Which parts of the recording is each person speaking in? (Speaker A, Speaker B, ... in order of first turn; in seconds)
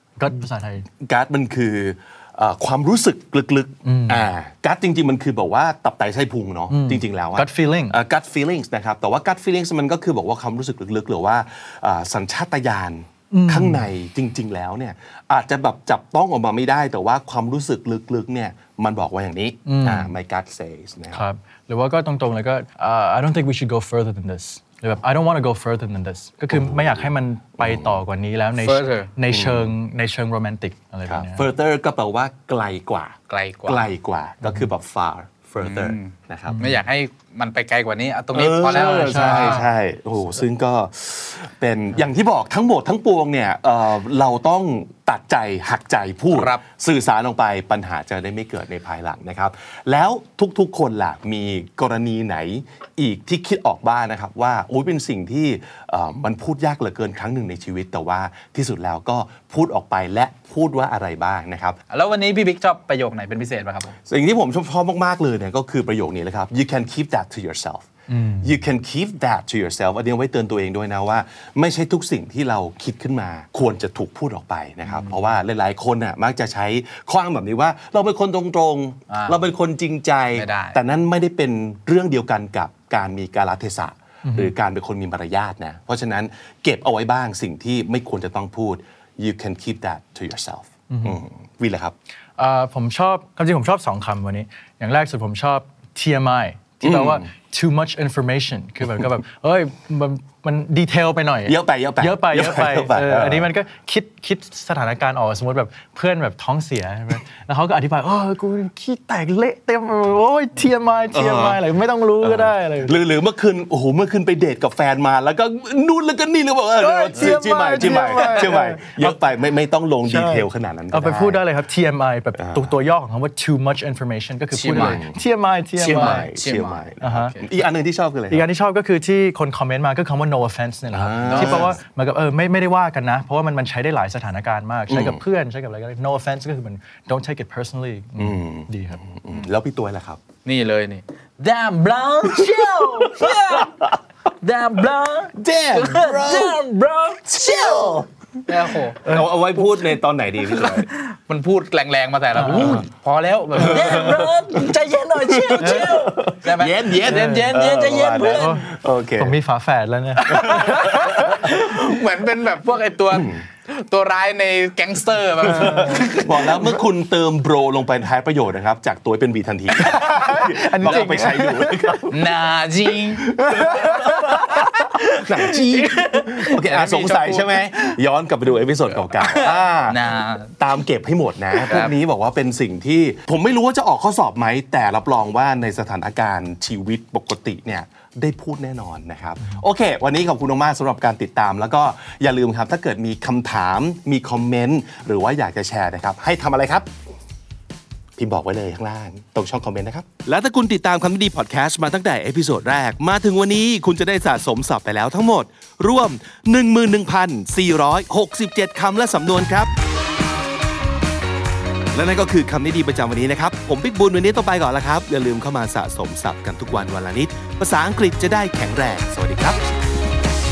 Speaker A: 0.2-0.9, 3.8-4.3, 6.7-8.0, 13.3-13.8, 19.6-20.1, 21.1-31.5, 36.5-36.8, 38.7-39.7, 68.1-68.5, 84.2-84.5, 90.9-91.2, 92.4-113.0, 116.8-119.2, 120.0-126.3, 127.0-127.3, 128.3-139.0, 152.3-152.8, 157.1-157.5, 158.2-158.7, 159.2-161.5, 165.6-166.0, 169.8-172.0, 173.3-174.7
Speaker B: 1.0-21.2, 26.5-28.0, 29.3-29.7, 31.1-36.6, 38.3-61.8, 64.1-67.9, 68.4-91.9, 96.8-97.3, 101.5-103.5, 111.1-111.6, 112.2-121.4, 122.4-122.7, 124.7-125.2, 125.8-128.4, 130.9-131.8, 134.9-135.2, 138.2-140.2, 142.3-143.9, 145.3-146.6, 147.2-148.1, 149.0-150.9, 152.4-152.8, 153.5-159.4, 160.2-161.7, 163.1-163.4, 165.4-196.9, 198.2-209.7, 211.9-219.6
Speaker C: 28.6-29.1, 33.3-33.9, 35.6-39.7, 46.3-46.6, 61.9-63.9, 74.9-75.2, 79.1-79.4, 80.3-80.8, 118.2-118.5, 124.5-125.0, 125.8-127.4, 131.2-131.7, 140.4-143.9, 144.4-149.2, 150.5-158.6, 160.3-166.6, 172.1-173.9, 175.6-177.8, 179.1-180.5, 181.6-181.9